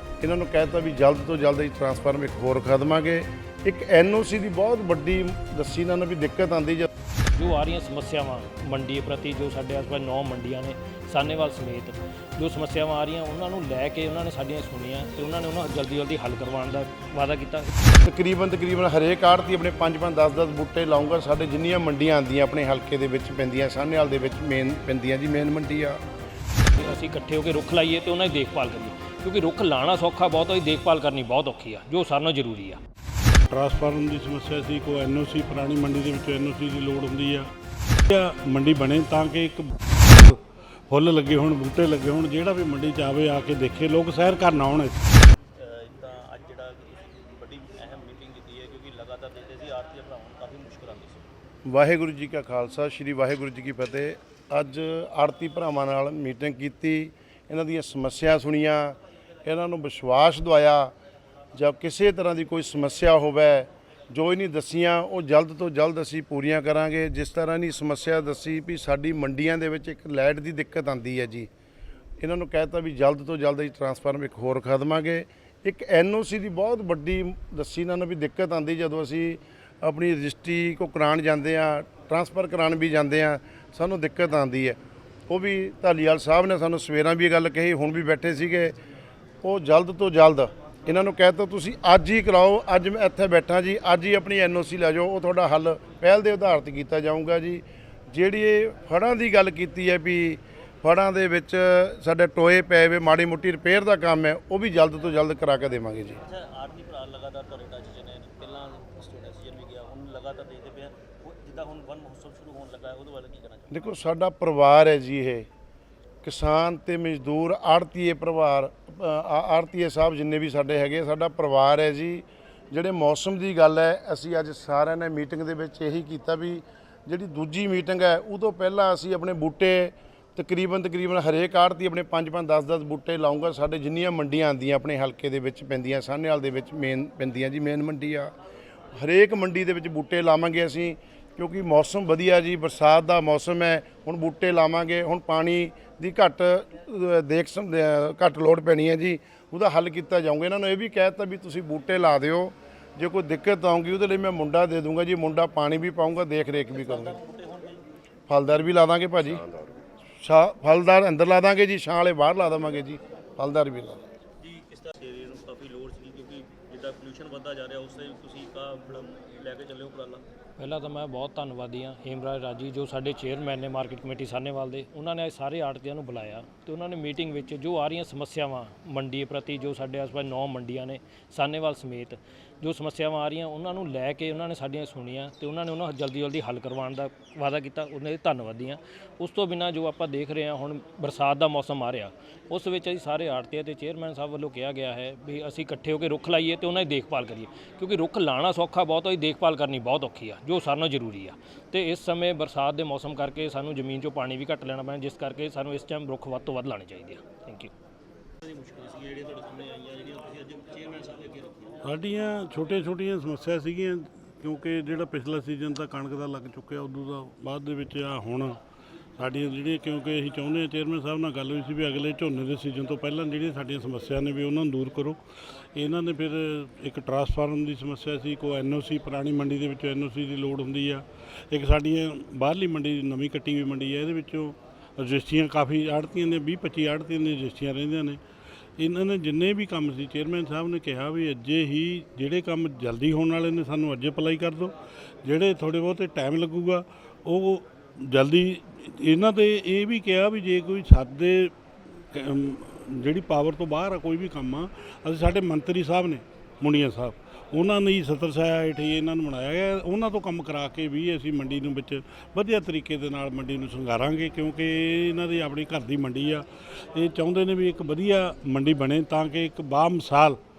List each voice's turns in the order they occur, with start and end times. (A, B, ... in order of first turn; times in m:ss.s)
0:00.2-0:06.9 A
0:07.3-0:17.7 B
0:18.0-0:26.0 A
0:26.8-0:32.8 B
0:33.5-0:37.5 C
0:38.1-0:45.0 C
0:45.6-0:51.3 D
0:51.6-1:00.9 A
1:01.5-1:11.5 A
1:12.2-1:24.8 A
1:25.3-1:28.8 A
1:29.4-1:46.2 A
1:46.1-1:53.8 D
1:53.7-1:55.5 A
1:56.2-2:18.4 A
2:19.0-2:37.2 A
2:36.7-2:37.8 D
2:38.3-2:39.5 A
2:40.2-2:44.0 A
2:44.4-2:50.2 D
2:50.6-3:27.7 B
3:28.4-3:31.8 D
3:31.8-3:38.6 C
3:39.2-3:58.2 C
3:58.8-4:11.5 C
4:12.1-4:30.4 C